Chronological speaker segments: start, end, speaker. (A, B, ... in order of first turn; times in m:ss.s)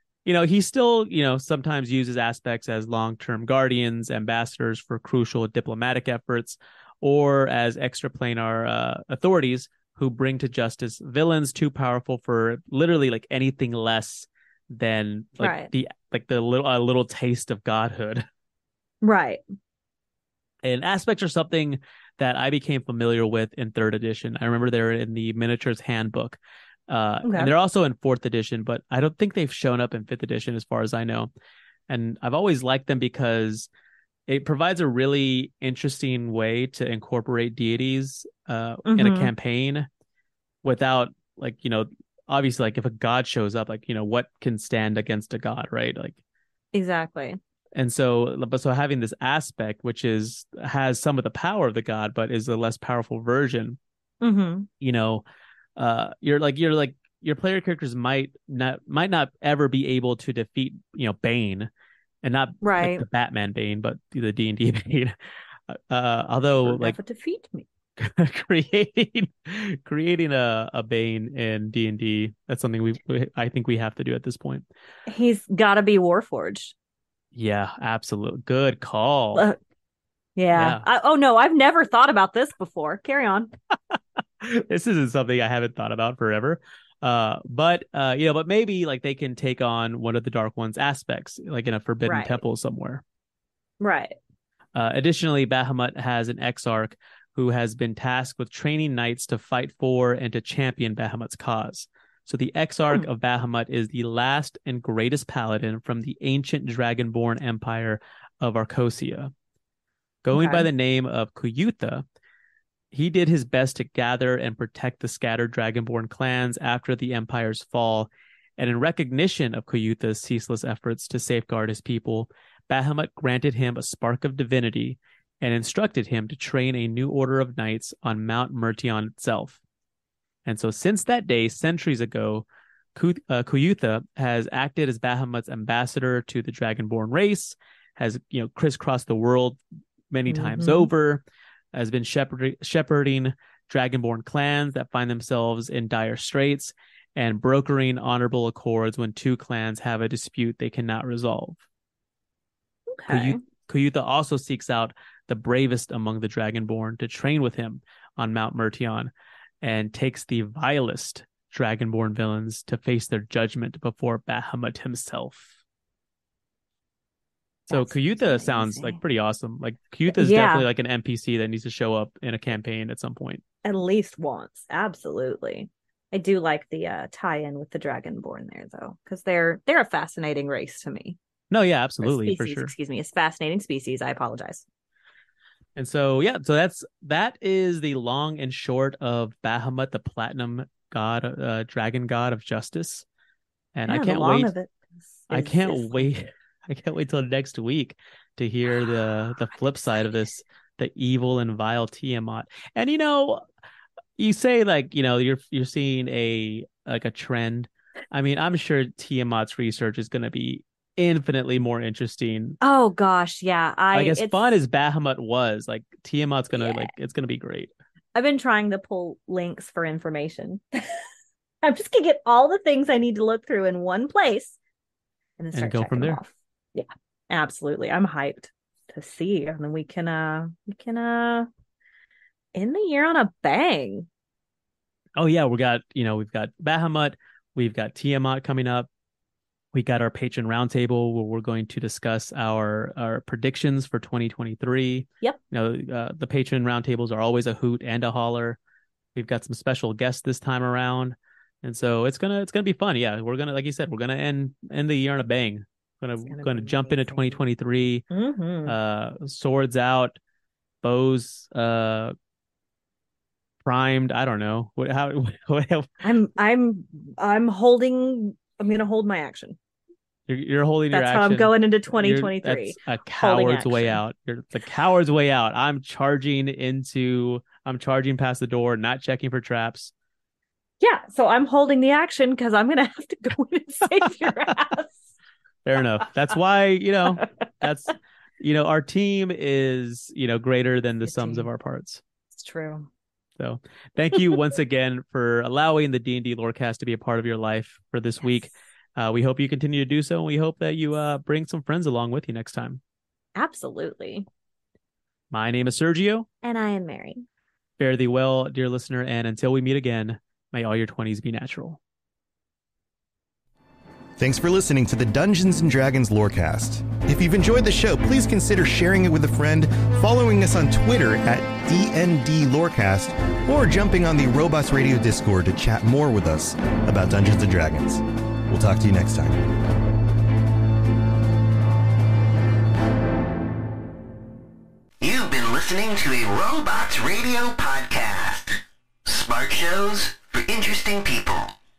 0:00.3-0:18.3 A
0:15.4-0:15.7 B
0:19.0-0:19.4 B
0:20.6-0:31.3 A
0:27.2-0:27.5 B
0:31.9-0:33.7 A
0:34.3-0:39.9 A
0:38.9-0:39.3 B
0:40.6-0:46.2 A
0:46.7-0:47.4 B
0:47.8-0:53.8 A
0:54.2-0:54.7 B
0:54.8-0:55.2 A
0:55.8-1:01.7 A
1:02.2-1:05.2 A
1:02.6-1:03.0 B
1:05.7-1:07.0 A
1:06.6-1:07.7 B
1:08.0-1:14.6 A
1:15.1-1:16.7 B
1:17.3-1:19.5 A
1:20.4-1:23.5 B
1:20.5-1:20.8 A
1:24.4-1:33.0 A
1:32.0-1:32.4 B
1:33.8-1:34.2 B
1:34.8-1:49.3 A
1:50.2-1:52.0 A
1:50.3-1:50.7 B
1:52.9-2:09.6 A
2:10.5-2:12.4 A
2:13.0-2:31.6 A
2:20.3-2:20.9 B
2:32.9-2:33.4 B
2:33.1-2:39.1 A
2:39.6-2:45.5 A
2:47.7-2:49.0 B
2:47.7-2:53.4 A
2:50.1-2:50.7 B
2:53.6-3:01.2 B
3:01.5-3:02.7 A
3:02.0-3:04.6 B
3:05.8-3:13.0 A
3:13.8-3:14.5 A
3:13.9-3:16.1 B
3:15.3-3:23.4 A
3:24.2-3:32.6 A
3:32.6-3:34.5 B
3:33.9-3:37.7 A
3:36.6-3:36.9 B
3:38.2-3:41.0 B
3:41.6-3:44.6 B
3:45.4-3:51.5 B
3:45.5-3:46.2 A
3:52.6-3:54.1 B
3:55.2-3:58.9 A
3:59.7-4:08.6 A
4:09.2-4:18.1 A
4:16.2-4:17.4 B
4:18.1-4:18.8 B
4:18.7-4:20.2 A
4:20.8-4:22.2 A
4:23.6-4:25.9 A
4:26.0-4:29.6 B
4:30.3-4:39.9 A
4:30.9-4:34.0 B
4:40.8-4:45.1 B
4:45.6-4:52.0 A
4:51.0-4:51.5 B
4:52.3-4:52.9 B
4:53.4-5:02.8 A
5:03.4-5:04.3 B
5:05.3-5:06.3 A
5:06.4-5:07.2 B
5:07.8-5:11.8 A
5:14.2-5:29.5 C
5:35.0-5:41.5 D